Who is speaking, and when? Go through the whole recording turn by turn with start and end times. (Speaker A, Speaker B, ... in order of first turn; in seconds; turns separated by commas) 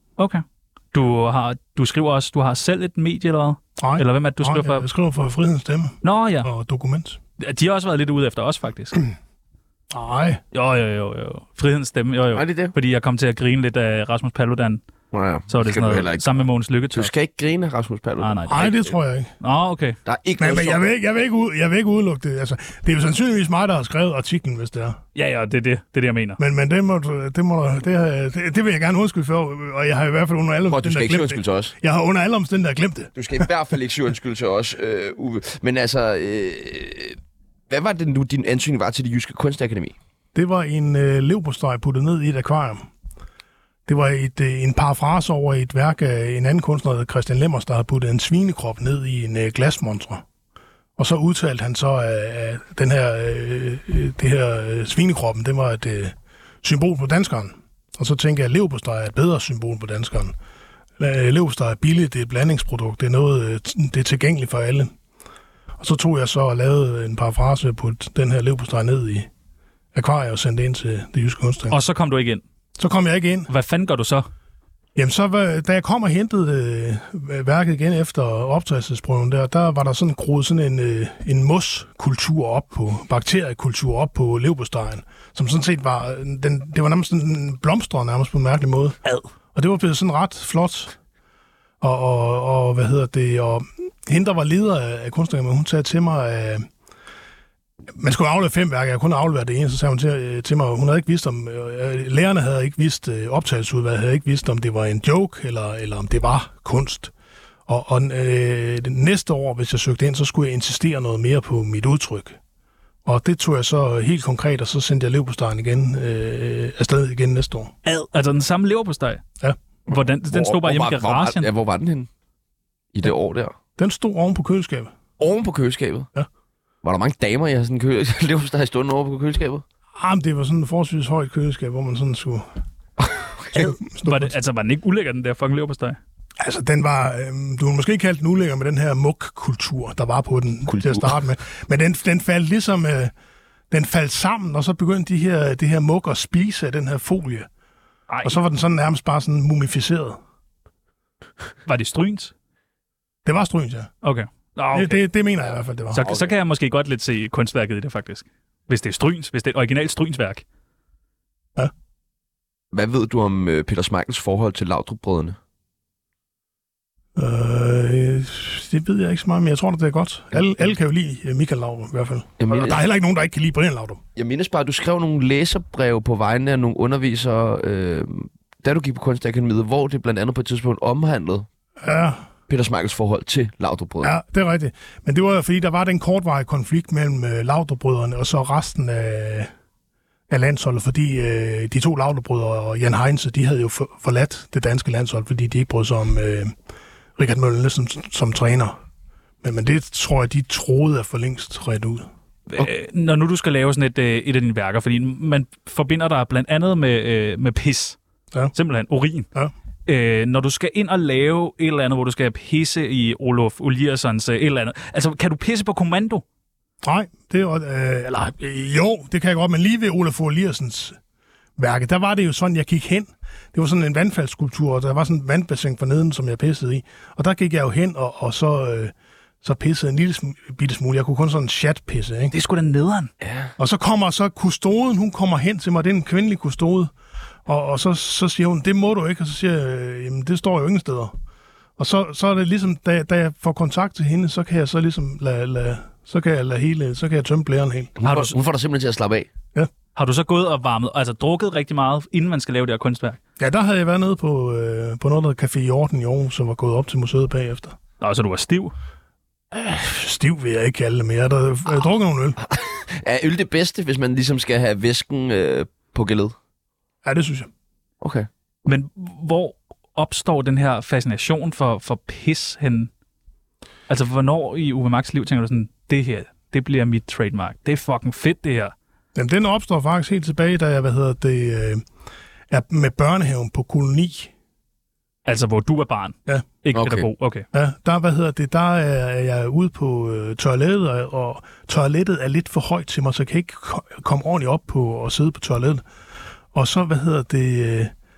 Speaker A: 0.2-4.9, Speaker B: 3.8-7.2, Speaker A: 6.0-6.5, Speaker A: 7.4-9.0, Speaker B: 9.9-10.4, Speaker A: 10.5-14.8, Speaker C: 12.3-12.7, Speaker C: 15.1-16.4, Speaker A: 15.5-17.1, Speaker C: 16.9-18.9, Speaker A: 18.2-18.7, Speaker B: 18.5-19.3, Speaker A: 19.4-20.0, Speaker C: 20.1-20.9, Speaker B: 20.4-25.0, Speaker A: 25.1-26.4, Speaker B: 26.4-33.5, Speaker C: 30.7-31.7, Speaker C: 33.2-37.2, Speaker C: 37.7-40.0, Speaker B: 40.4-42.9, Speaker B: 43.9-50.2, Speaker B: 51.0-60.4, Speaker B: 61.0-64.9, Speaker B: 65.8-69.3, Speaker B: 69.9-71.8, Speaker A: 71.7-72.4, Speaker B: 72.8-73.5, Speaker A: 73.5-74.3, Speaker B: 75.0-91.0, Speaker B: 91.8-96.7, Speaker B: 98.0-107.1, Speaker B: 107.7-112.4, Speaker B: 113.0-117.7, Speaker A: 117.8-119.2, Speaker A: 119.9-121.5, Speaker C: 120.3-122.1, Speaker C: 122.9-123.5, Speaker B: 123.8-124.9, Speaker C: 125.2-126.1, Speaker C: 126.8-129.6, Speaker B: 130.0-132.5, Speaker C: 133.0-133.7, Speaker B: 133.5-134.3, Speaker A: 134.0-136.0, Speaker B: 136.4-143.1, Speaker C: 140.7-141.1, Speaker B: 143.7-147.5, Speaker A: 148.1-148.4, Speaker B: 148.2-150.2, Speaker A: 151.7-152.3, Speaker B: 153.2-153.9, Speaker A: 154.0-155.0, Speaker B: 154.7-156.1, Speaker A: 155.9-160.4, Speaker C: 156.0-156.3, Speaker C: 162.7-165.4, Speaker B: 167.2-174.0, Speaker C: 172.4-172.8, Speaker C: 174.2-181.5, Speaker B: 181.8-182.2, Speaker C: 182.5-184.1, Speaker B: 184.0-189.5, Speaker B: 190.3-196.6, Speaker B: 197.2-198.8, Speaker B: 199.4-202.1, Speaker A: 202.5-208.0, Speaker A: 208.5-209.3, Speaker A: 209.9-216.2, Speaker B: 216.8-221.0, Speaker B: 221.6-232.3, Speaker A: 232.3-233.1, Speaker C: 233.2-233.5, Speaker B: 233.6-236.9, Speaker B: 237.5-241.2, Speaker B: 241.8-248.0, Speaker C: 248.0-249.3, Speaker A: 248.1-248.3, Speaker A: 250.0-253.2, Speaker B: 253.4-257.8, Speaker A: 258.0-258.7, Speaker B: 259.5-262.4, Speaker C: 262.5-266.3, Speaker B: 267.0-267.5, Speaker C: 268.0-268.3, Speaker A: 268.7-272.9, Speaker A: 273.9-278.7, Speaker B: 279.1-281.9, Speaker B: 282.5-284.3, Speaker A: 285.3-287.5, Speaker C: 286.7-287.1, Speaker B: 287.5-295.8, Speaker B: 296.5-297.9